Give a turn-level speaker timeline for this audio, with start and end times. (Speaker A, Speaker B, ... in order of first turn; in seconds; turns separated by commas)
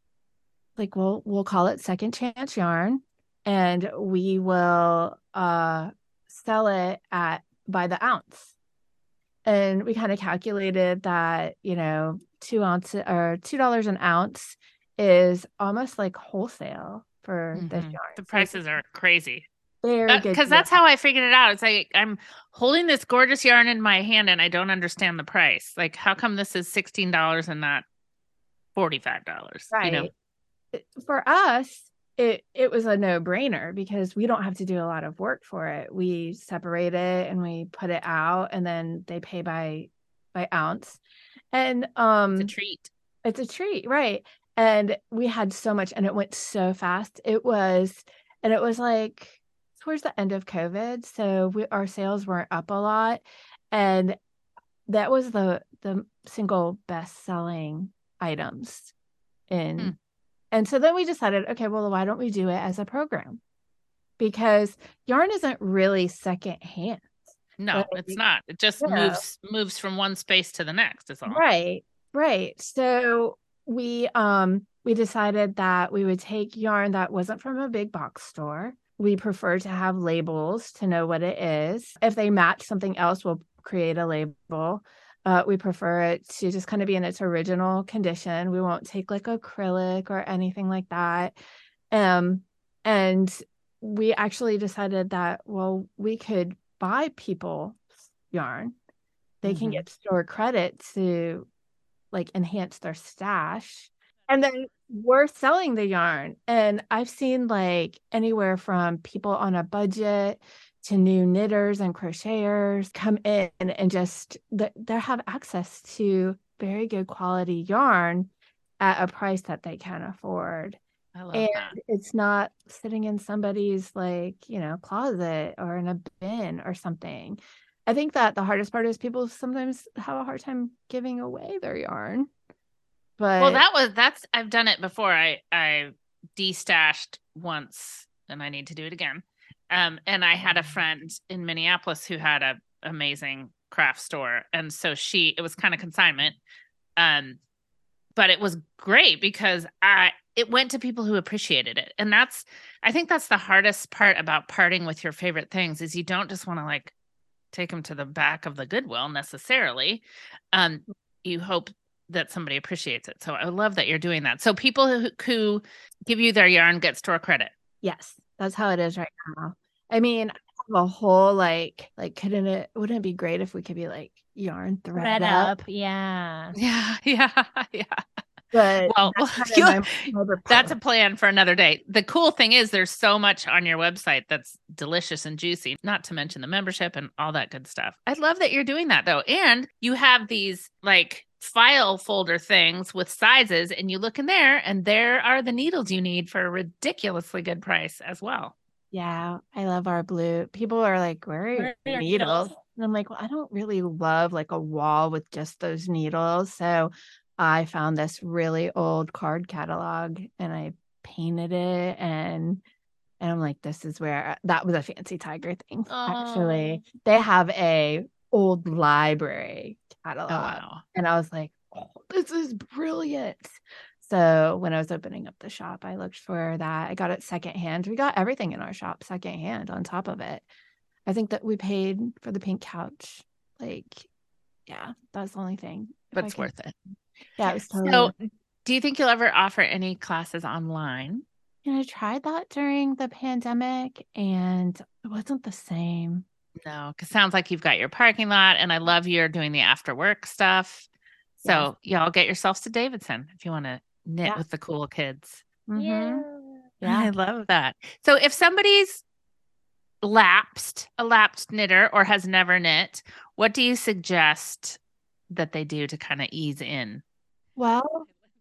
Speaker A: 0.8-8.5, Speaker A: 9.4-18.6, Speaker B: 17.5-19.5, Speaker A: 19.8-20.7, Speaker B: 20.1-27.8, Speaker B: 28.7-30.1, Speaker A: 29.7-30.1, Speaker A: 30.7-41.0, Speaker A: 41.5-42.5, Speaker B: 42.4-42.9, Speaker A: 43.2-54.2, Speaker A: 54.9-58.9, Speaker A: 59.5-59.9, Speaker A: 60.5-63.4, Speaker A: 64.2-67.2, Speaker B: 67.6-71.4, Speaker A: 67.7-68.2, Speaker A: 68.8-69.2, Speaker A: 71.3-91.3, Speaker A: 91.9-98.8, Speaker A: 99.4-101.5, Speaker B: 99.5-99.7, Speaker A: 102.1-120.8, Speaker B: 121.1-121.8, Speaker A: 121.3-132.3, Speaker A: 133.2-133.6, Speaker B: 133.4-146.4, Speaker B: 147.0-147.4, Speaker B: 148.1-156.9, Speaker B: 157.5-167.5, Speaker A: 167.8-175.6, Speaker C: 174.9-176.6, Speaker B: 176.6-178.0, Speaker A: 178.5-180.8, Speaker B: 178.9-198.5, Speaker A: 198.9-212.6, Speaker C: 201.5-202.6, Speaker A: 213.2-230.4, Speaker C: 215.9-216.8, Speaker B: 220.3-220.8, Speaker A: 231.1-234.1, Speaker A: 234.7-236.5, Speaker B: 236.1-236.9, Speaker A: 237.4-238.1, Speaker B: 237.8-241.2, Speaker A: 241.6-246.2, Speaker B: 246.6-250.9, Speaker A: 251.4-251.7, Speaker B: 251.4-255.4, Speaker A: 255.7-256.2, Speaker C: 255.8-256.7, Speaker B: 256.8-259.0, Speaker B: 260.0-267.0, Speaker A: 267.6-268.1